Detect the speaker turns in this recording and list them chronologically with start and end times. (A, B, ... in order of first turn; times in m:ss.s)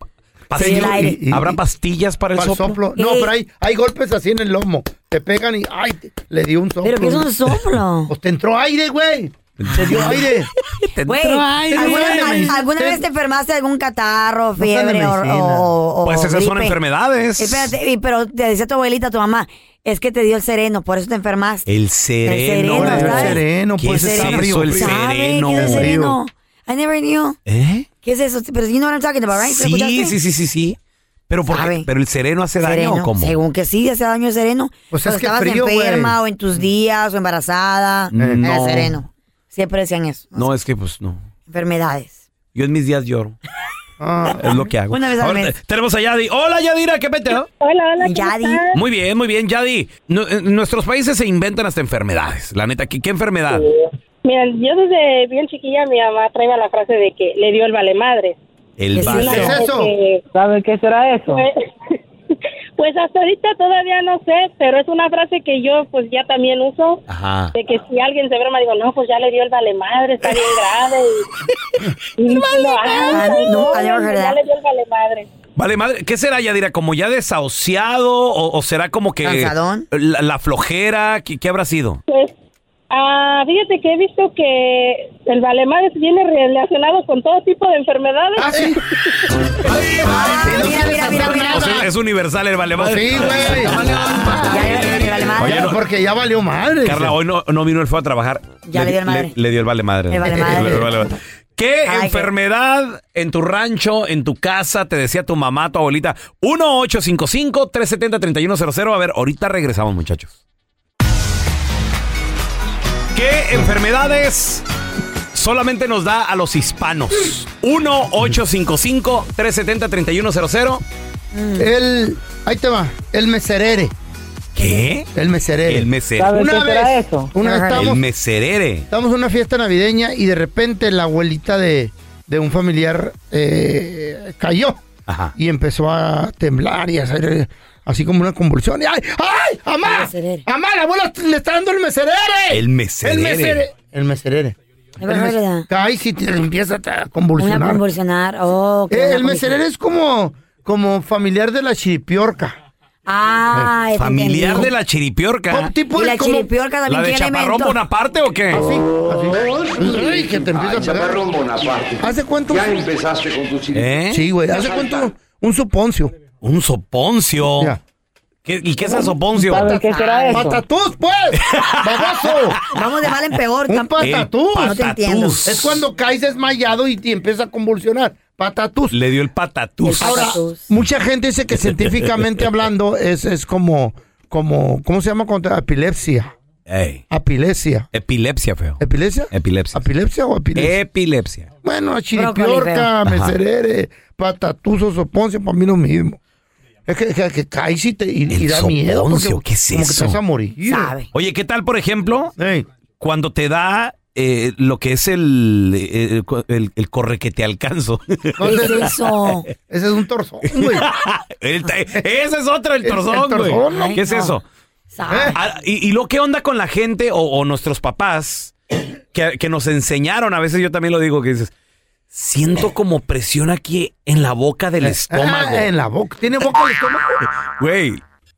0:00.5-0:02.8 A
0:00.5-0:01.6 B
0:00.6-0:01.2 C
0:02.4-0:07.3 B
0:03.0-0:03.3 C
0:06.8-0:08.1 C
0:08.1-0:10.5 B
0:09.6-0:10.3 A
0:09.7-0:10.3 C
0:10.8-0:12.6 A
0:11.1-0:16.8 C
0:11.5-0:13.0 B
0:14.6-0:15.7 B
0:16.0-0:17.8 A
0:17.4-0:21.7 C
0:21.7-0:26.0 A
0:22.2-0:27.4 C
0:22.7-0:25.0 B
0:25.5-0:26.2 B
0:27.5-0:27.9 A
0:28.0-0:30.2 C
0:29.4-0:30.8 A
0:31.3-0:33.4 A
0:31.5-0:31.9 C
0:32.6-0:40.5 C
0:34.9-0:36.2 B
0:38.1-0:39.0 A
0:38.2-0:38.4 B
0:40.4-0:41.2 A
0:41.5-0:42.2 C
0:42.5-0:43.4 A
0:44.0-0:44.6 B
0:44.4-0:47.5 A
0:44.9-0:45.5 C
0:47.6-0:48.8 D
0:48.0-0:48.6 C
0:48.7-0:53.7 A
0:54.2-0:58.4 D
0:58.8-0:59.6 A
0:58.9-0:59.5 C
0:59.0-1:00.2 D
0:59.2-0:59.9 B
1:00.3-1:01.4 E
1:02.8-1:07.0 D
1:07.1-1:07.5 A
1:07.6-1:11.3 D
1:12.2-1:15.3 D
1:13.1-1:14.4 C
1:15.6-1:22.0 A
1:19.2-1:19.9 C
1:22.1-1:22.3 D
1:22.9-1:28.8 D
1:28.4-1:28.8 B
1:30.0-1:31.8 C
1:30.2-1:31.9 B
1:31.0-1:34.6 A
1:32.8-1:33.8 B
1:34.0-1:34.3 F
1:34.4-1:35.7 C
1:35.4-1:35.8 A
1:35.4-1:37.2 B
1:36.8-1:50.4 A
1:38.7-1:39.3 C
1:40.1-1:40.9 C
1:40.3-1:40.8 B
1:41.9-1:42.3 C
1:53.1-1:54.6 A
1:55.3-2:00.8 A
2:01.3-2:01.7 C
2:01.6-2:03.9 B
2:04.6-2:05.1 A
2:05.1-2:08.0 B
2:05.7-2:06.4 A
2:06.2-2:07.3 E
2:07.4-2:07.9 C
2:07.8-2:08.9 A
2:08.9-2:14.8 B
2:15.1-2:15.3 A
2:15.4-2:27.8 B
2:19.8-2:20.4 C
2:22.5-2:23.7 A
2:25.0-2:25.7 C
2:27.4-2:29.6 C
2:28.9-2:32.6 B
2:33.1-2:34.7 C
2:34.0-2:35.7 A
2:35.5-2:36.5 B
2:36.0-2:37.8 C
2:36.9-2:38.7 A
2:38.5-2:41.3 B
2:39.3-2:44.0 F
2:42.0-2:42.8 B
2:43.7-2:44.3 A
2:44.1-2:46.1 B
2:44.5-2:45.1 F
2:46.4-2:47.8 A
2:48.5-2:49.8 A
2:48.9-2:52.6 B
2:49.5-2:50.6 E
2:49.9-2:50.5 C
2:51.4-2:52.6 A
2:52.7-2:55.6 C
2:53.7-2:54.8 B
2:54.0-2:55.8 A
2:55.4-2:59.0 B
2:58.9-3:00.4 A
2:59.8-3:00.7 C
3:00.0-3:06.3 B
3:01.6-3:02.4 A
3:06.7-3:07.0 A
3:07.1-3:07.9 B
3:07.9-3:09.8 A
3:08.8-3:10.8 B
3:10.6-3:11.5 A
3:11.6-3:16.2 B
3:12.1-3:12.9 C
3:13.0-3:13.4 A
3:16.9-3:21.0 B
3:18.3-3:20.2 A
3:20.7-3:21.1 C
3:21.1-3:22.3 A
3:22.4-3:22.7 B
3:23.0-3:28.9 A
3:28.4-3:29.0 B
3:28.4-3:29.5 C
3:29.5-3:30.9 B
3:30.5-3:34.4 A
3:32.8-3:34.0 B
3:33.7-3:34.4 C
3:34.9-3:35.4 C
3:35.1-3:35.4 B
3:35.3-3:38.5 A
3:39.1-3:41.5 A
3:42.1-3:45.7 A
3:44.8-3:47.2 B
3:47.6-3:48.0 A